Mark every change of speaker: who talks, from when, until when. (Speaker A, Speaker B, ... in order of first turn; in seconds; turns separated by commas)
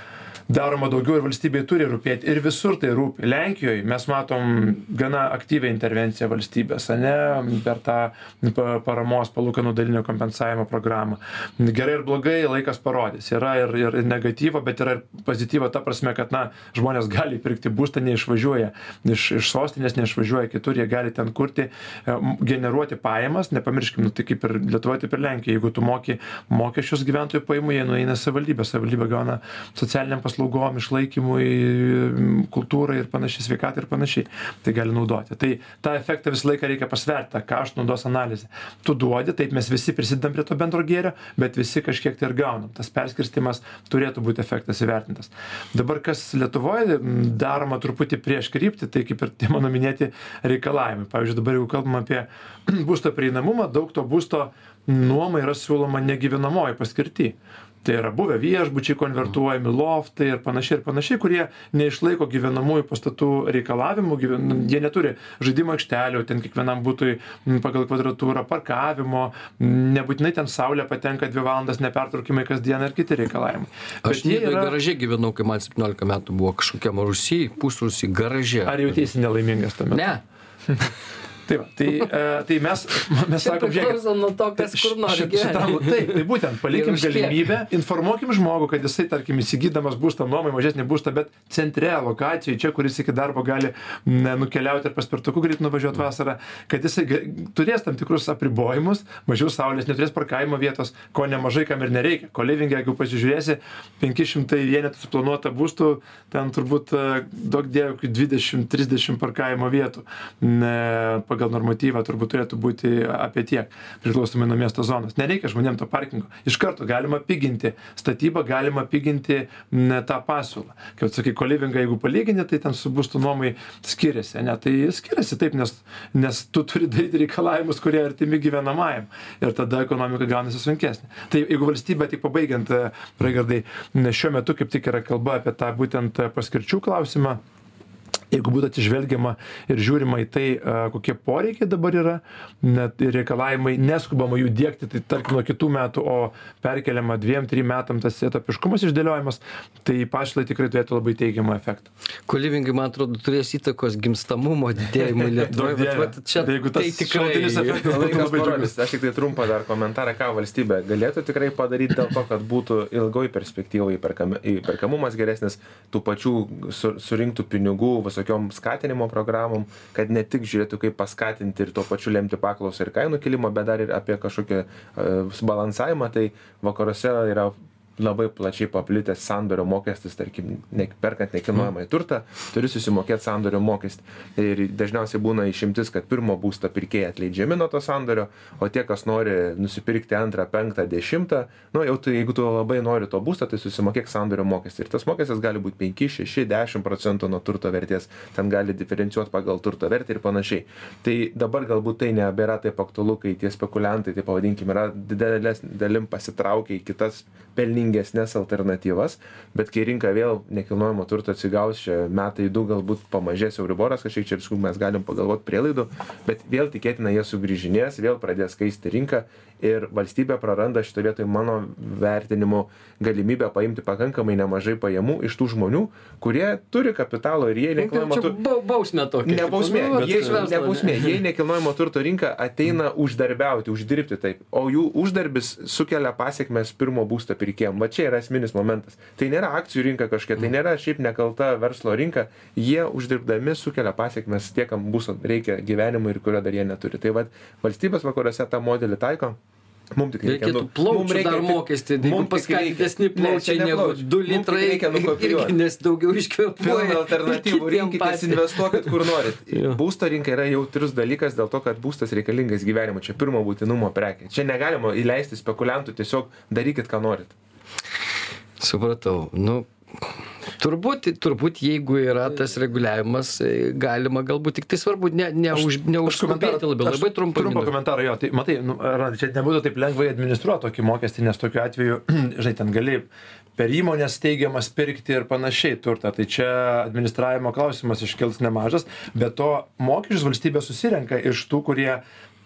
Speaker A: 0.5-74.7, Speaker B: 74.0-78.9, Speaker A: 78.6-80.1, Speaker B: 79.9-80.2, Speaker A: 81.5-84.0, Speaker B: 83.3-87.5, Speaker A: 84.6-137.4, Speaker A: 138.3-151.9, Speaker B: 152.3-158.6, Speaker A: 155.5-158.7, Speaker C: 157.8-228.4, Speaker B: 227.8-231.2, Speaker C: 229.2-249.4, Speaker A: 229.9-230.4, Speaker C: 249.9-255.6, Speaker B: 250.2-259.8, Speaker C: 256.6-267.3, Speaker B: 268.6-270.0, Speaker B: 270.6-277.7, Speaker A: 275.5-292.0